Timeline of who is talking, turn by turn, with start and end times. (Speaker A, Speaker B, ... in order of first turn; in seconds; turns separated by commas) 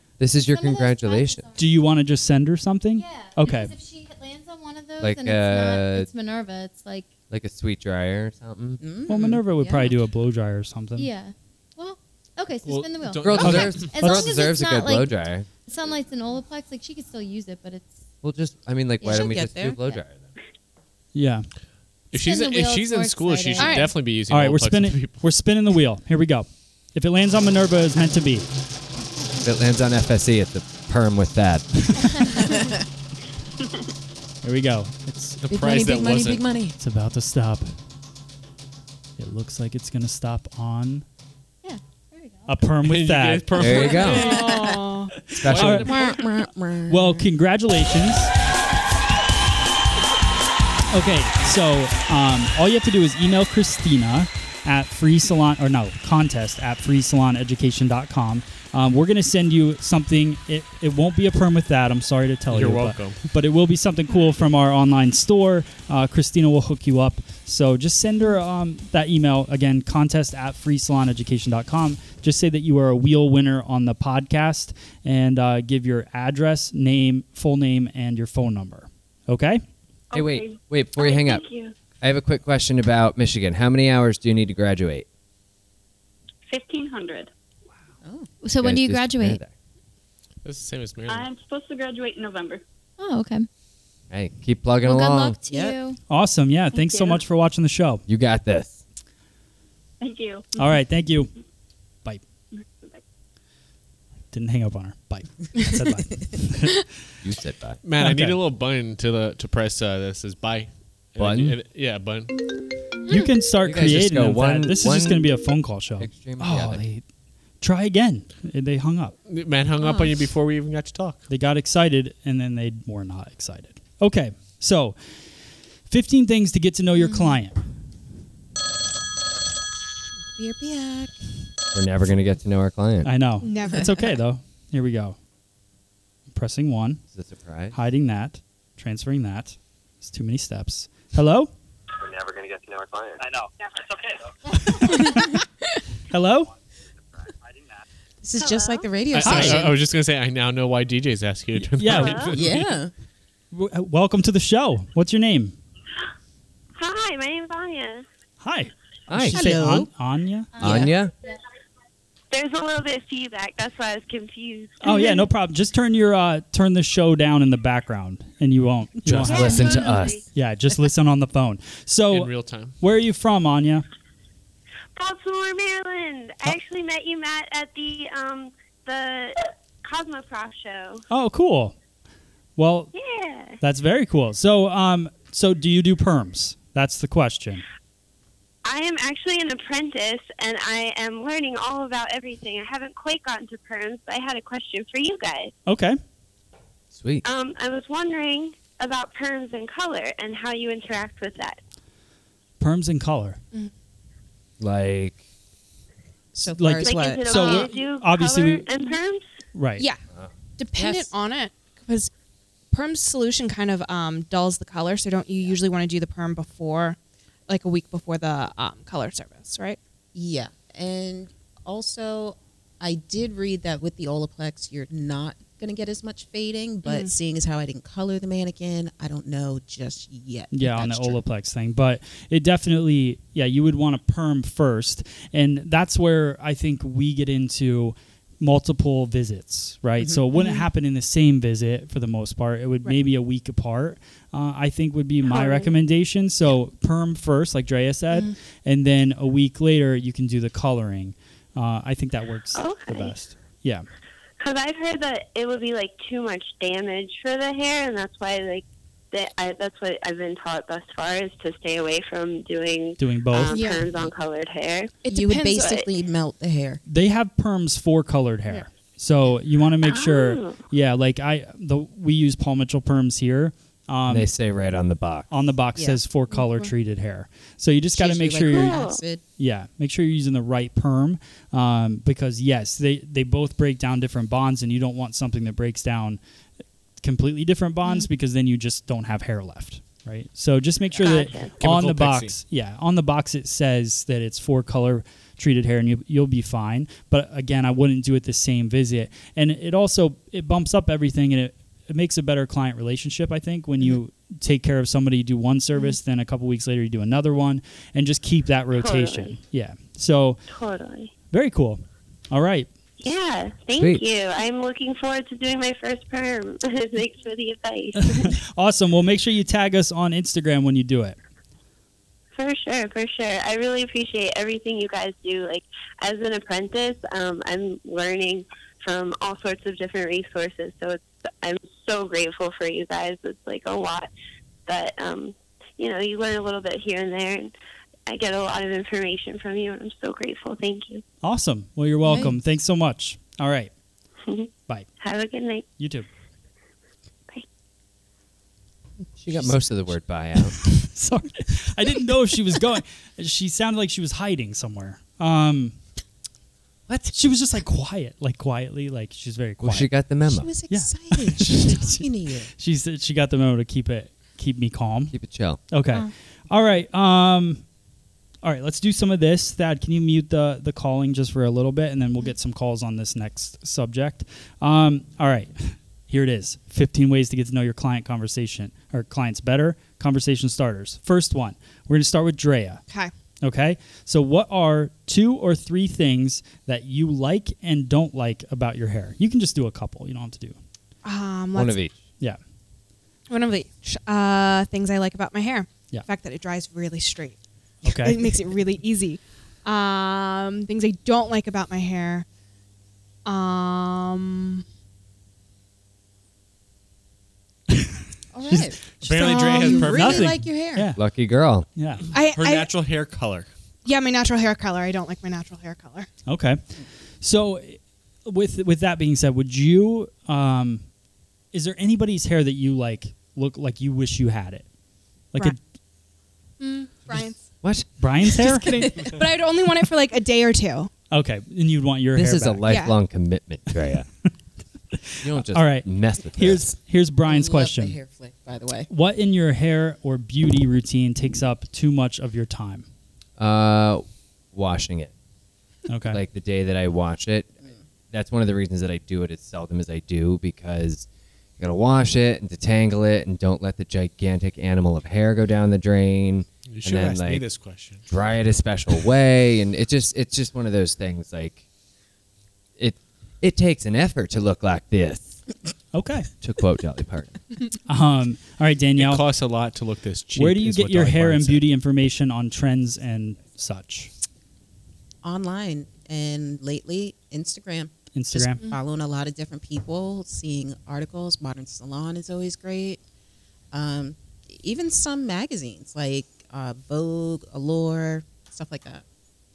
Speaker A: 0.2-1.4, Speaker B: 0.3-1.7, Speaker C: 1.6-3.7, Speaker B: 3.0-7.1, Speaker A: 5.0-6.1, Speaker A: 7.3-8.8, Speaker D: 8.8-10.0, Speaker C: 9.1-11.1, Speaker B: 11.0-15.1, Speaker E: 12.7-13.9, Speaker A: 13.2-15.5, Speaker C: 13.4-14.2, Speaker B: 15.7-18.0, Speaker A: 18.2-20.3, Speaker D: 19.0-19.8, Speaker C: 21.1-21.5, Speaker E: 22.1-25.2, Speaker B: 22.1-23.9, Speaker F: 23.6-23.9, Speaker C: 24.3-28.5, Speaker A: 29.4-31.9, Speaker C: 32.0-32.2, Speaker C: 34.4-35.4, Speaker E: 35.4-36.4, Speaker D: 35.5-36.8, Speaker C: 36.8-37.7, Speaker C: 39.2-41.0, Speaker B: 41.6-42.6, Speaker C: 42.5-43.7, Speaker E: 42.8-46.3, Speaker A: 43.5-44.4, Speaker F: 43.7-45.1, Speaker D: 44.1-44.8, Speaker A: 45.3-46.0, Speaker C: 45.5-45.9, Speaker D: 45.6-47.3, Speaker C: 46.9-48.3, Speaker C: 50.9-79.6, Speaker E: 62.5-63.2, Speaker G: 80.1-81.7, Speaker A: 80.1-81.5, Speaker A: 82.0-85.1, Speaker G: 86.5-87.3, Speaker D: 88.0-88.3, Speaker B: 88.4-89.4, Speaker A: 88.6-89.5, Speaker E: 90.4-91.3, Speaker G: 91.1-92.6, Speaker B: 93.0-93.5, Speaker A: 94.1-95.4, Speaker B: 94.8-96.0, Speaker D: 95.5-95.8, Speaker C: 96.1-98.0, Speaker G: 96.7-97.2, Speaker A: 98.1-98.8, Speaker G: 100.0-100.6, Speaker C: 100.6-101.3, Speaker G: 102.6-103.0, Speaker C: 104.3-106.8, Speaker A: 107.2-107.8, Speaker E: 107.8-112.3, Speaker C: 108.0-108.4, Speaker A: 111.2-111.6, Speaker C: 113.1-117.0, Speaker A: 113.6-115.3, Speaker A: 116.0-116.8, Speaker C: 117.6-119.2, Speaker E: 119.3-121.2, Speaker D: 119.8-120.1, Speaker C: 121.3-125.0, Speaker C: 125.9-127.6, Speaker D: 130.4-131.2, Speaker A: 131.7-133.1, Speaker C: 133.0-135.2, Speaker F: 133.4-133.9, Speaker C: 136.3-137.0, Speaker A: 137.1-137.8, Speaker C: 137.7-141.5, Speaker C: 144.7-145.3, Speaker C: 146.1-146.5, Speaker D: 148.2-149.8, Speaker H: 148.4-148.9, Speaker E: 149.1-152.7, Speaker C: 149.2-149.7, Speaker C: 151.6-152.3, Speaker H: 151.9-152.3, Speaker D: 152.3-152.9, Speaker C: 153.5-155.6, Speaker H: 156.8-158.1, Speaker C: 158.4-160.5, Speaker A: 159.1-159.6, Speaker D: 159.3-159.9, Speaker B: 160.6-160.9, Speaker D: 160.6-160.9, Speaker A: 160.6-161.1, Speaker H: 162.3-165.3, Speaker C: 164.8-169.8, Speaker A: 169.1-170.2, Speaker H: 169.3-170.2, Speaker B: 169.4-170.0, Speaker C: 170.3-173.8, Speaker E: 172.1-172.8, Speaker H: 175.0-181.0, Speaker C: 181.1-181.8, Speaker C: 182.6-182.9, Speaker H: 182.9-183.6, Speaker C: 183.6-187.6, Speaker H: 188.7-195.5, Speaker C: 195.7-196.0, Speaker A: 196.9-197.2, Speaker H: 197.2-201.6, Speaker C: 202.6-203.4, Speaker A: 204.6-205.2, Speaker D: 206.4-207.6, Speaker C: 206.4-208.7, Speaker H: 206.8-209.2, Speaker C: 209.5-209.8, Speaker F: 210.6-212.1, Speaker D: 210.8-211.1, Speaker F: 212.7-219.8, Speaker D: 220.2-231.2, Speaker F: 226.8-227.1, Speaker C: 230.5-253.8, Speaker F: 240.3-240.7, Speaker H: 245.3-245.7, Speaker H: 252.5-253.2, Speaker H: 254.4-265.0, Speaker C: 263.0-263.6, Speaker F: 263.5-264.0, Speaker F: 265.1-265.7, Speaker D: 265.1-266.8, Speaker H: 265.6-265.8, Speaker C: 266.9-274.3, Speaker H: 269.8-270.6, Speaker A: 274.1-275.3, Speaker C: 275.3-278.8, Speaker D: 275.8-276.0, Speaker D: 277.9-279.2, Speaker H: 278.5-279.0, Speaker C: 279.4-286.2, Speaker C: 287.0-310.4, Speaker H: 291.0-291.6, Speaker E: 291.6-292.4, Speaker H: 308.7-309.4, Speaker H: 310.5-311.1, Speaker C: 311.3-312.7, Speaker H: 313.0-318.3, Speaker C: 318.0-321.2, Speaker H: 322.4-334.1, Speaker H: 334.7-337.5, Speaker H: 338.1-341.0, Speaker C: 341.2-343.7, Speaker D: 342.1-342.4, Speaker H: 344.3-345.7, Speaker C: 345.8-346.1, Speaker A: 349.2-350.7, Speaker C: 350.6-355.8, Speaker A: 356.9-357.2, Speaker C: 357.1-359.9, Speaker A: 359.6-360.5, Speaker D: 360.3-362.5, Speaker C: 360.7-365.1, Speaker A: 365.1-365.6, Speaker C: 365.7-367.6, Speaker C: 368.4-382.8, Speaker C: 383.4-390.6, Speaker F: 391.0-391.8, Speaker A: 391.6-391.9, Speaker F: 393.3-402.3, Speaker C: 397.8-398.3, Speaker F: 403.2-404.6, Speaker C: 407.7-408.0, Speaker D: 408.3-410.9, Speaker C: 408.5-411.0, Speaker E: 409.0-410.4, Speaker A: 411.0-411.7, Speaker C: 411.8-412.1, Speaker F: 412.1-412.7, Speaker E: 412.2-413.5, Speaker F: 413.9-416.1, Speaker C: 416.3-420.9, Speaker C: 421.5-424.7, Speaker C: 425.3-425.6, Speaker F: 426.6-427.5, Speaker C: 428.0-428.9, Speaker F: 428.4-430.9, Speaker C: 431.1-432.7, Speaker A: 432.1-434.1, Speaker F: 432.7-433.0, Speaker C: 435.0-438.0, Speaker A: 435.2-436.8, Speaker D: 437.2-438.9, Speaker C: 438.9-442.9, Speaker A: 443.4-445.1, Speaker C: 445.9-446.2, Speaker A: 446.1-447.5, Speaker A: 448.1-451.1, Speaker A: 451.6-457.5, Speaker E: 456.7-458.1, Speaker A: 458.1-461.6, Speaker A: 462.8-465.4, Speaker C: 465.9-466.3, Speaker A: 466.4-467.4, Speaker C: 467.9-469.2, Speaker E: 469.0-471.7, Speaker C: 470.4-474.1, Speaker D: 475.2-483.0, Speaker C: 478.1-478.6, Speaker D: 483.7-489.0